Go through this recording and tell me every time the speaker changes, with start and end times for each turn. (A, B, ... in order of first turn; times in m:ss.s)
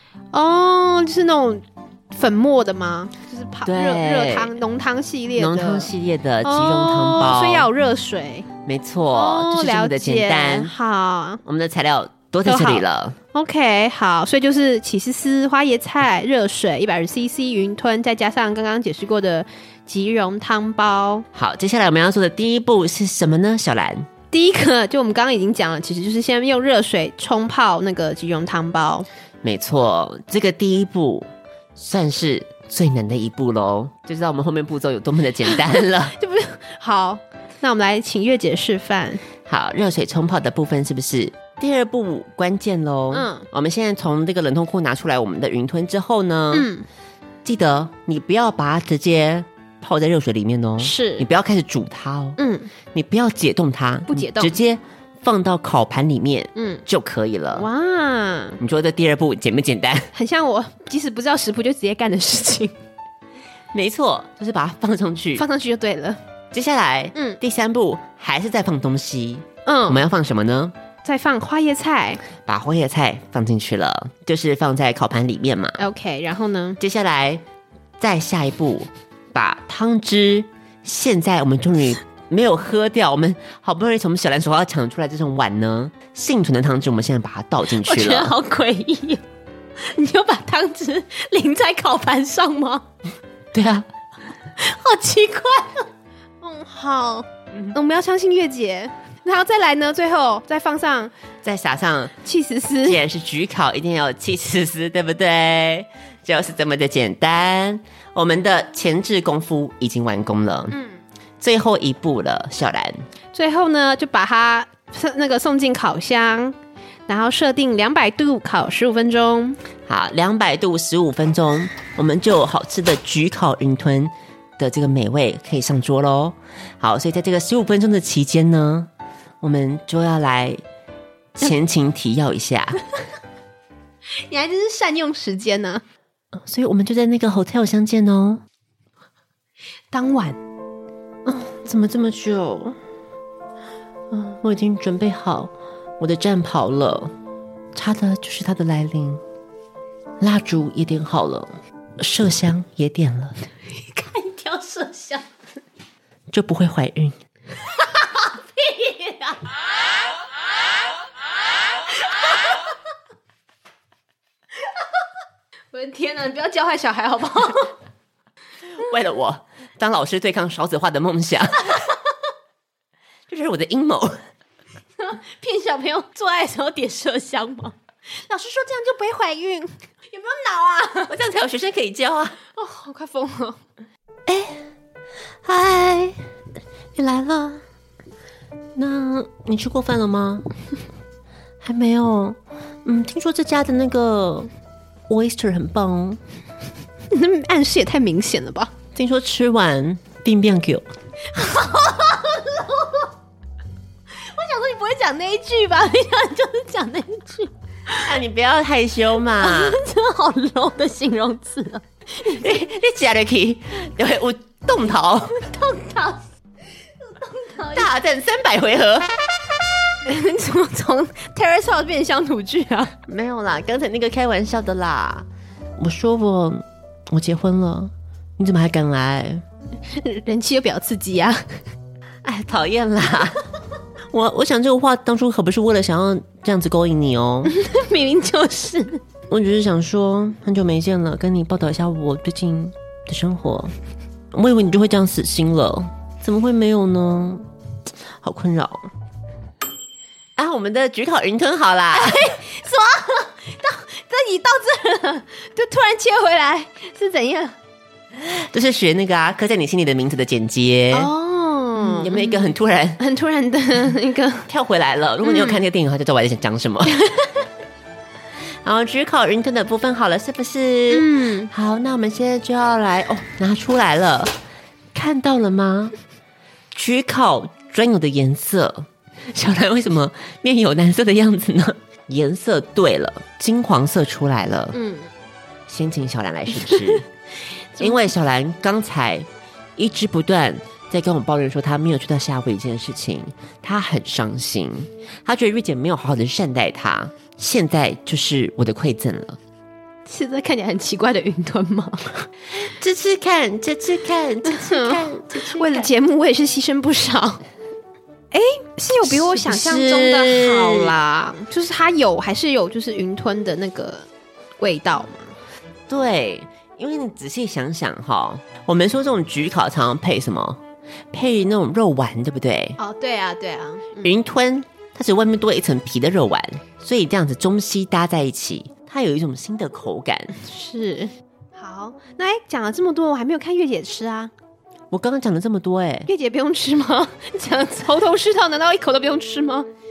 0:00.3-0:05.9 A
0:03.6-0:04.5 B
0:05.4-0:07.7 B
0:06.4-0:08.5 A
0:08.6-0:10.7 B
0:09.1-0:11.4 A
0:11.4-0:13.2 B
0:12.4-0:21.2 A
0:21.3-0:24.1 B
0:24.3-0:29.0 A
0:29.4-0:36.2 B
0:35.6-0:39.2 A
0:39.4-0:46.7 B
0:43.1-0:43.4 A
0:46.5-0:46.8 A
0:47.4-0:52.4 B
0:50.8-0:51.2 A
0:52.4-0:52.7 A
0:52.9-0:57.7 B
0:54.1-0:54.5 A
0:56.5-0:56.8 A
0:57.6-0:58.6 A
0:58.6-1:00.1 B
1:00.1-1:02.8 A
1:03.7-1:05.4 B
1:05.4-1:06.2 A
1:06.5-1:10.7 B
1:09.6-1:10.0 A
1:11.0-1:12.2 A
1:12.4-1:15.8 B
1:15.8-1:16.8 A
1:16.8-1:17.4 B
1:18.0-1:28.3 B
1:27.8-1:29.2 A
1:29.8-1:32.9 A
1:33.5-1:33.8 B
1:34.6-1:35.9 A
1:36.4-1:41.1 A
1:41.4-1:42.1 B
1:42.2-1:43.0 A
1:42.8-1:50.8 B
1:50.7-1:51.0 A
1:51.4-1:53.0 B
1:53.3-1:56.6 A
1:57.1-1:59.6 A
1:59.8-2:08.9 B
2:09.4-2:10.6 B
2:11.3-2:12.8 B
2:14.2-2:15.8 A
2:16.3-2:18.4 B
2:19.9-2:20.4 A
2:21.2-2:22.8 B
2:24.1-2:27.1 B
2:27.7-2:29.2 B
2:30.2-2:33.4 B
2:33.7-2:35.3 A
2:36.3-2:37.2 B
2:37.6-2:39.5 A
2:42.0-2:42.6 A
2:45.7-2:47.8 A
2:48.7-2:51.8 B
2:53.3-2:54.2 B
2:55.0-3:01.1 A
3:01.1-3:02.4 B
3:02.5-3:03.6 A
3:04.3-3:04.6 B
3:05.4-3:06.2 B
3:07.0-3:07.6 B
3:08.8-3:10.4 B
3:11.6-3:14.5 B
3:15.1-3:16.2 B
3:17.1-3:18.7 A
3:18.9-3:20.8 B
3:21.3-3:23.1 A
3:24.1-3:28.1 A
3:28.0-3:29.8 B
3:29.4-3:32.6 A
3:32.2-3:35.4 B
3:35.3-3:36.2 A
3:37.0-3:37.9 A
3:37.7-3:39.1 B
3:40.0-3:42.9 A
3:43.0-3:45.3 B
3:45.8-3:49.4 B
3:49.9-3:51.6 A
3:52.2-3:53.4 B
3:54.1-3:57.5 B
3:57.4-3:59.0 A
3:59.3-4:03.7 B
4:04.3-4:07.5 B
4:08.2-4:08.9 B
4:10.4-4:12.3 B
4:11.9-4:17.6 A
4:18.2-4:21.1 B
4:20.9-4:24.5 A
4:21.8-4:23.0 B
4:24.5-4:27.0 B
4:25.2-4:25.6 A
4:26.8-4:27.4 A
4:28.6-4:34.3 B
4:30.9-4:31.5 A
4:34.9-4:35.9 B
4:36.7-4:44.8 B
4:44.7-4:45.1 A
4:45.7-4:47.0 B
4:46.6-4:47.0 A
4:47.8-4:48.1 A
4:47.8-4:59.4 B
5:00.0-5:02.3 A
5:02.5-5:05.9 B
5:04.4-5:07.4 A
5:08.3-5:14.1 A
5:09.0-5:11.0 B
5:14.6-5:15.3 A
5:15.9-5:20.6 B
5:21.1-5:22.8 B
5:22.8-5:24.1 A
5:24.0-5:30.3 B
5:30.4-5:34.3 A
5:34.9-5:36.1 B
5:36.1-5:39.7 A